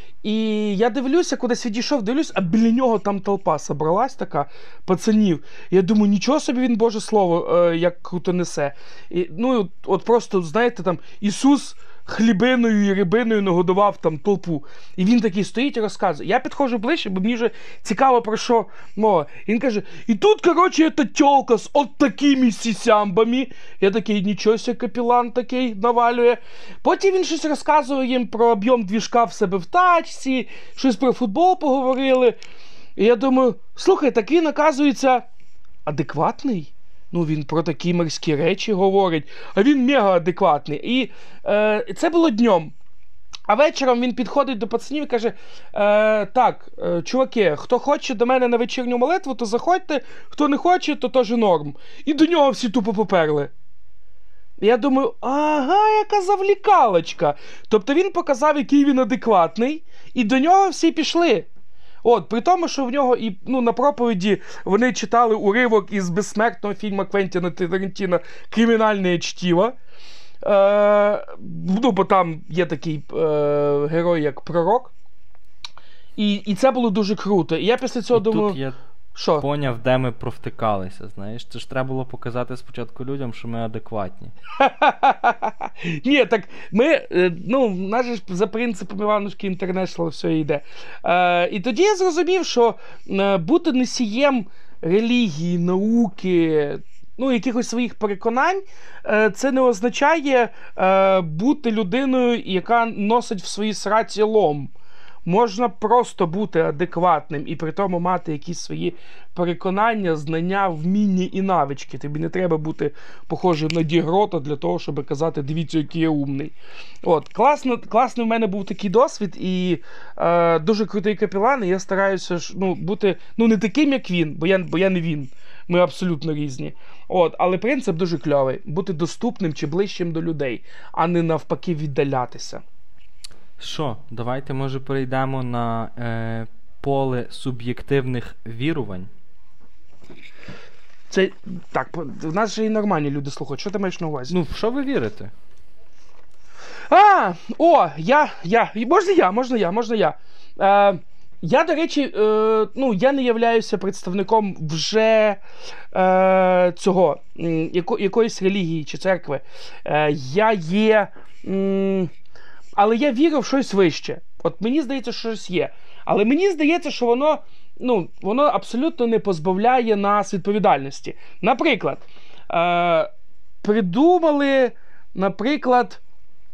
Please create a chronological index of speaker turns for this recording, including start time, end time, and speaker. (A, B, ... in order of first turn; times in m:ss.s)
0:00.2-0:32.4 A
0:33.0-0:35.3 A
0:35.9-0:42.7 A
0:43.5-0:53.5 A
0:54.6-1:01.5 A
1:02.0-1:09.8 A
1:10.4-1:14.9 A
1:16.2-1:18.6 A
1:18.1-1:18.8 B
1:19.2-1:19.4 A
1:19.4-1:24.3 B
1:24.6-1:44.7 A
1:45.2-2:12.6 A
2:13.6-2:19.1 B
2:21.1-2:24.4 A
2:24.3-2:25.3 B
2:26.9-2:35.4 A
2:35.9-2:42.1 A
2:42.8-2:53.1 A
2:53.6-2:56.0 A